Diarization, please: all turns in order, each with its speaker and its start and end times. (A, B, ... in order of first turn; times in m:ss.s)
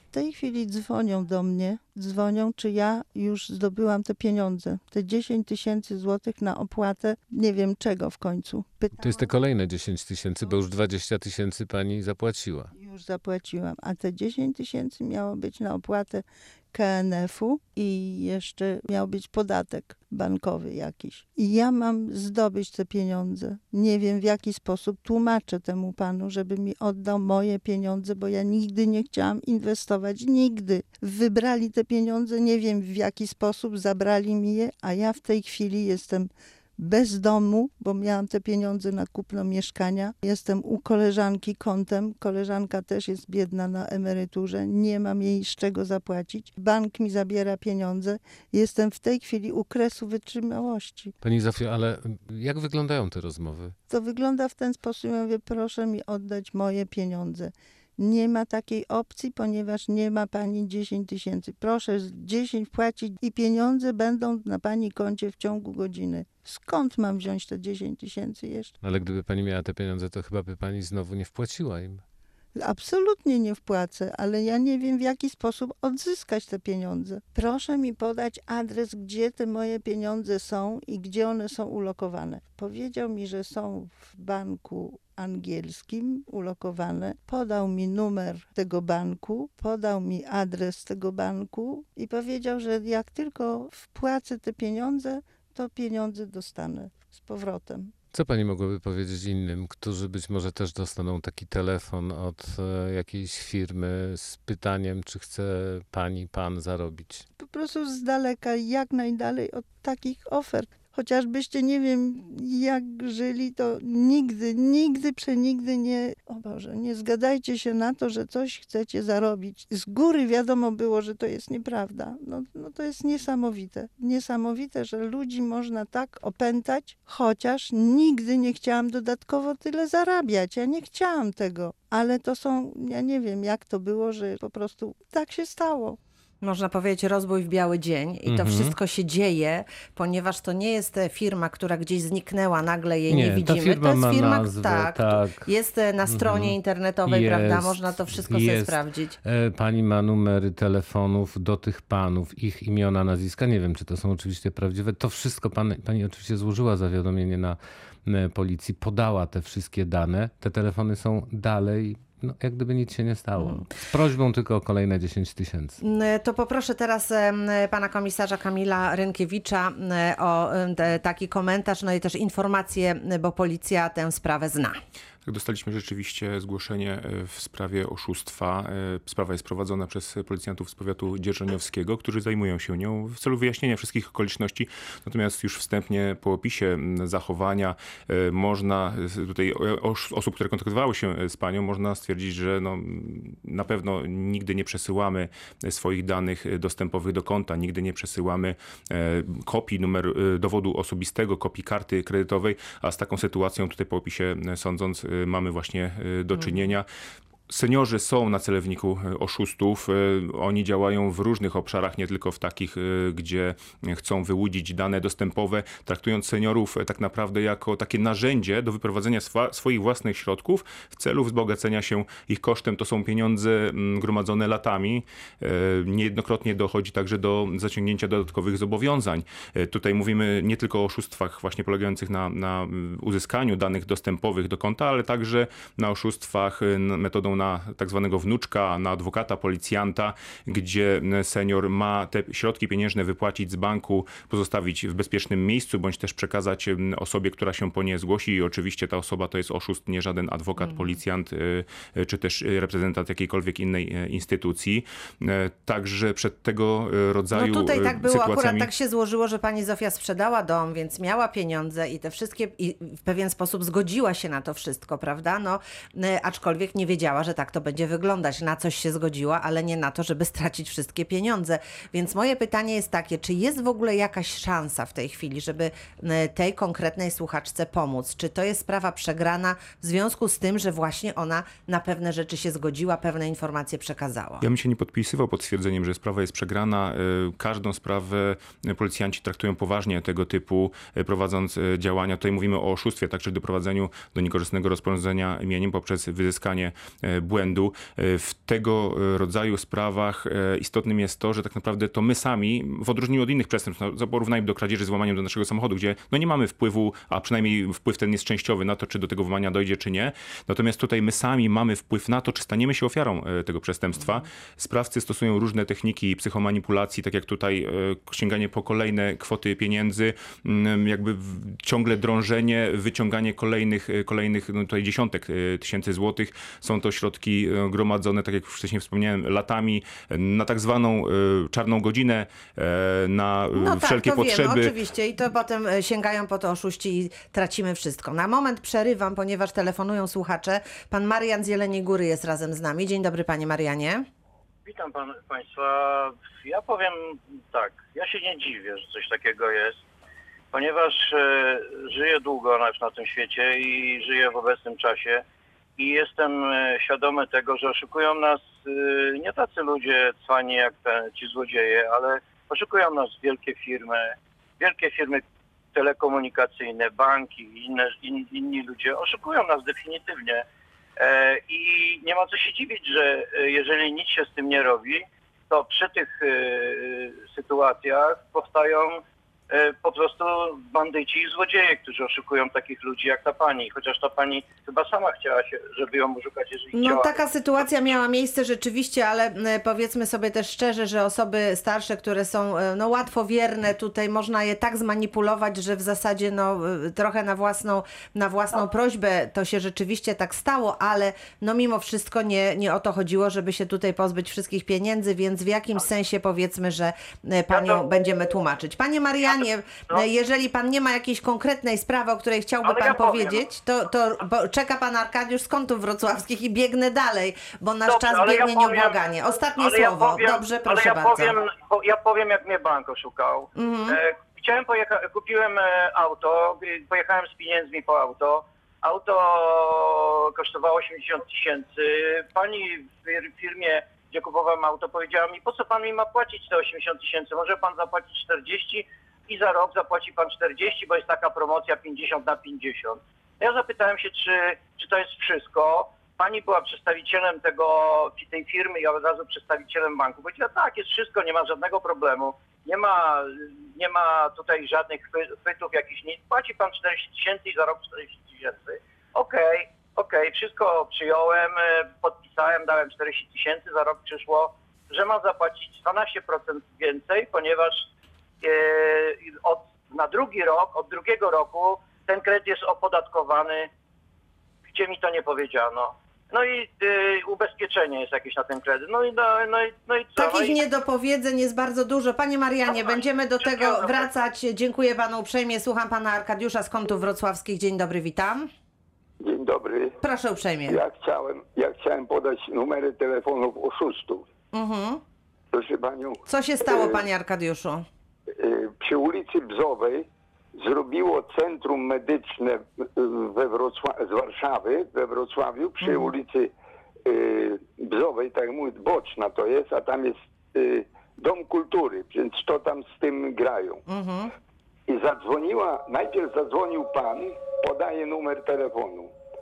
0:00.1-0:09.2 A
0:09.0-0:12.7 B
0:12.7-0:51.1 A
0:51.2-0:53.8 B
0:53.9-1:08.7 A
1:08.8-1:12.0 B
1:12.6-1:37.9 A
1:38.1-1:47.3 B
1:47.4-2:16.0 A
2:16.4-2:29.2 C
2:18.3-2:18.8 B
2:23.1-2:25.5 B
2:26.1-2:45.8 B
2:43.4-2:43.6 C
2:45.8-2:54.8 C
2:55.3-3:26.9 D
3:26.4-3:26.7 C
3:27.5-4:18.7 D
4:10.6-4:10.9 C
4:17.3-4:44.4 C
4:44.4-5:34.7 D
5:33.5-5:44.1 C
5:44.6-5:49.8 E
5:50.5-5:55.2 E
5:55.8-6:10.5 E
6:11.0-6:27.2 E
6:26.7-7:01.4 C
6:47.5-6:47.8 E
6:49.2-6:50.0 E
6:52.6-6:53.4 E
6:57.9-6:59.0 E
6:59.6-7:47.9 E
7:03.6-7:04.0 C
7:48.4-7:53.7 E
7:54.7-8:00.6 E
8:00.2-8:08.5 C
8:02.7-8:04.1 E
8:09.2-8:10.0 F
8:10.0-8:10.8 C
8:10.7-8:14.3 F
8:14.5-8:15.0 C
8:15.5-8:17.0 F
8:16.3-8:17.9 C
8:18.4-8:26.5 F
8:25.8-8:26.1 C
8:27.0-8:33.8 F
8:33.9-8:34.3 C
8:34.9-8:39.1 F